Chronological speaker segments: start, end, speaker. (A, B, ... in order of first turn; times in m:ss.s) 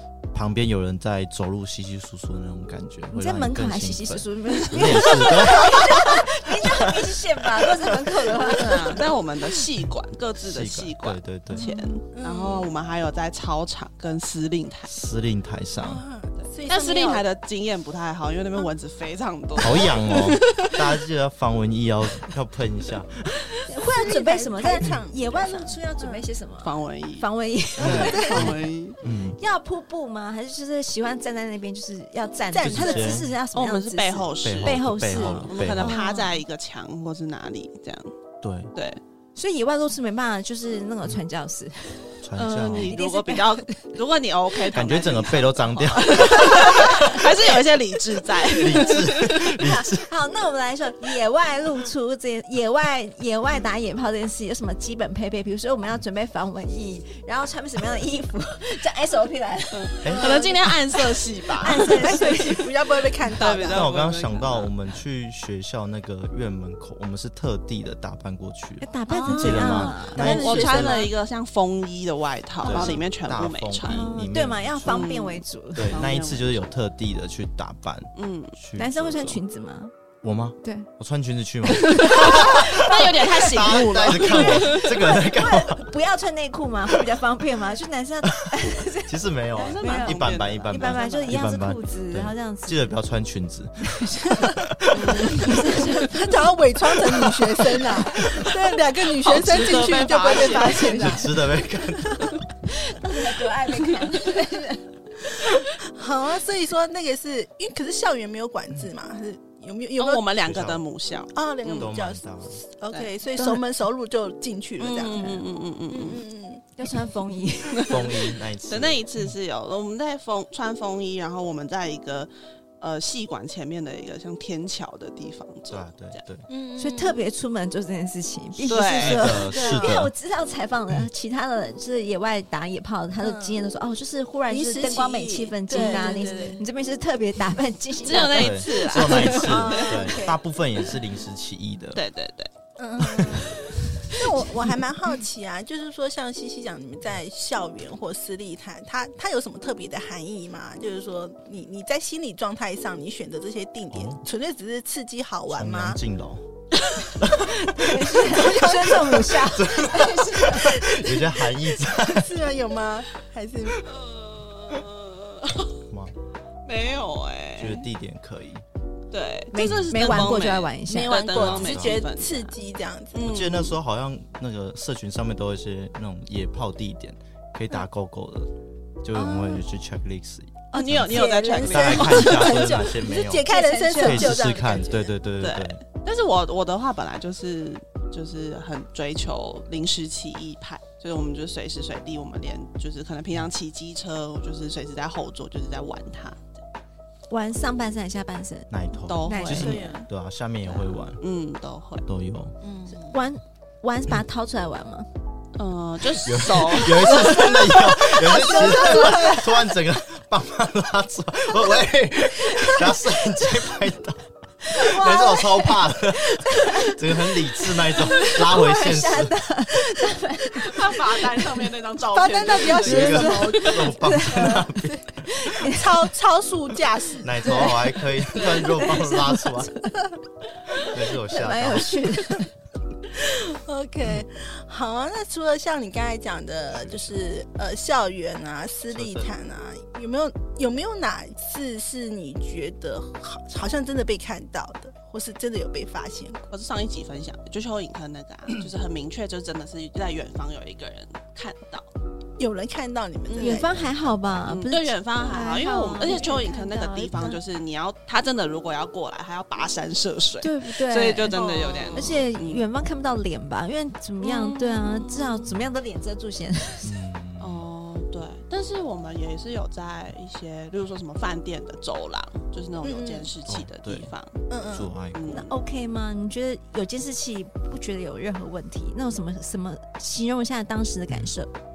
0:00.3-0:08.4 A
0:03.1-0:09.0 B
0:08.5-0:15.0 C
0:10.4-0:11.6 A
0:11.6-0:12.0 B
0:12.1-0:12.7 D
0:14.9-0:16.0 A
0:15.8-0:17.2 D
0:16.4-0:20.8 C
0:19.6-0:23.3 A
0:23.6-0:36.4 B
0:23.7-0:26.3 D
0:26.6-0:29.0 C
0:27.8-0:28.5 D
0:27.8-0:29.4 A
0:32.5-0:33.3 D
0:32.6-0:33.3 A
0:33.5-0:38.1 C
0:34.4-0:36.0 A
0:38.4-0:38.7 A
0:38.7-0:39.0 C
0:39.4-0:43.9 B
0:42.2-0:43.0 A
0:42.4-0:49.4 C
0:44.7-0:47.0 A
0:46.8-0:47.1 B
0:48.6-0:50.1 A
0:49.2-1:03.1 B
0:59.7-1:02.4 C
1:00.0-1:00.3 A
1:00.1-1:00.4 D
1:01.8-1:03.9 D
1:03.4-1:04.7 C
1:03.6-1:11.1 A
1:08.8-1:10.4 B
1:09.1-1:14.1 C
1:10.0-1:11.1 D
1:12.6-1:15.1 A
1:13.8-1:16.0 B
1:14.9-1:16.7 C
1:15.7-1:19.4 A
1:18.1-1:18.6 C
1:18.8-1:19.9 B
1:20.2-1:25.9 A
1:20.6-1:20.9 B
1:21.8-1:22.5 B
1:21.8-1:25.1 C
1:24.3-1:29.2 B
1:28.3-1:35.6 A
1:29.5-1:31.4 C
1:29.7-1:32.9 B
1:33.9-1:34.6 B
1:34.9-1:35.8 C
1:35.3-1:36.5 B
1:35.7-1:41.3 D
1:39.2-1:41.2 C
1:40.3-1:41.3 B
1:40.9-1:42.4 A
1:42.7-1:45.7 B
1:45.8-1:50.2 D
1:50.0-1:51.9 C
1:50.4-1:50.8 A
1:51.3-1:56.6 D
1:51.8-1:52.6 A
1:53.4-1:53.6 B
1:54.8-1:56.2 C
1:56.8-1:58.1 B
1:57.8-1:59.0 A
1:58.7-2:06.2 C
2:05.7-2:06.4 A
2:06.5-2:07.2 D
2:06.8-2:19.5 B
2:08.6-2:09.5 C
2:08.9-2:10.1 A
2:09.5-2:10.0 D
2:13.2-2:13.6 D
2:14.5-2:16.6 D
2:15.7-2:16.4 C
2:18.0-2:19.9 C
2:18.1-2:22.0 A
2:19.2-2:20.4 D
2:21.9-2:22.5 C
2:22.8-2:36.0 D
2:23.0-2:23.6 C
2:33.9-2:34.2 A
2:35.5-2:36.4 A
2:37.2-2:38.0 A
2:37.6-2:41.1 B
2:38.2-2:43.8 D
2:39.4-2:42.3 A
2:43.8-2:45.8 C
2:45.9-2:46.1 A
2:46.6-2:47.9 C
2:47.6-2:48.6 A
2:49.1-2:52.6 C
2:49.5-2:51.3 B
2:49.6-2:50.4 A
2:50.0-2:53.2 D
2:51.3-2:52.0 A
2:53.1-2:53.8 C
2:53.2-2:58.5 A
2:59.0-3:05.8 A
2:59.3-2:59.6 D
3:00.7-3:02.8 C
3:01.0-3:05.1 D
3:03.4-3:04.5 B
3:05.4-3:16.6 C
3:17.3-3:18.7 B
3:18.7-3:21.2 A
3:19.0-3:19.8 C
3:19.3-3:19.9 B
3:19.5-3:20.1 D
3:21.2-3:22.1 C
3:22.0-3:22.6 A
3:22.6-3:23.2 D
3:22.9-3:25.1 B
3:25.6-3:27.5 C
3:26.2-3:39.4 A
3:27.0-3:29.4 B
3:28.2-3:29.5 D
3:34.7-3:41.0 B
3:40.6-3:43.5 C
3:42.1-3:44.8 D
3:42.6-3:45.5 A
3:42.9-3:45.9 B
3:45.6-3:47.8 D
3:47.2-3:49.8 A
3:47.4-3:47.8 B
3:48.4-3:49.9 B
3:50.8-3:52.4 A
3:51.3-3:52.4 B
3:53.1-4:06.4 D
3:56.7-3:57.2 A
3:58.9-3:59.3 A
4:06.5-4:11.9 C
4:12.4-4:13.9 D
4:13.3-4:13.6 C
4:13.4-4:17.4 B
4:13.9-4:14.4 A
4:14.4-4:22.6 C
4:20.4-4:27.0 B
4:21.3-4:22.0 D
4:24.2-4:25.5 C
4:26.8-4:27.7 A
4:27.4-4:34.4 C
4:32.8-4:33.3 D
4:33.5-4:34.1 A
4:34.5-4:34.9 D
4:34.7-4:35.5 A
4:35.1-4:35.5 C
4:35.3-4:41.5 B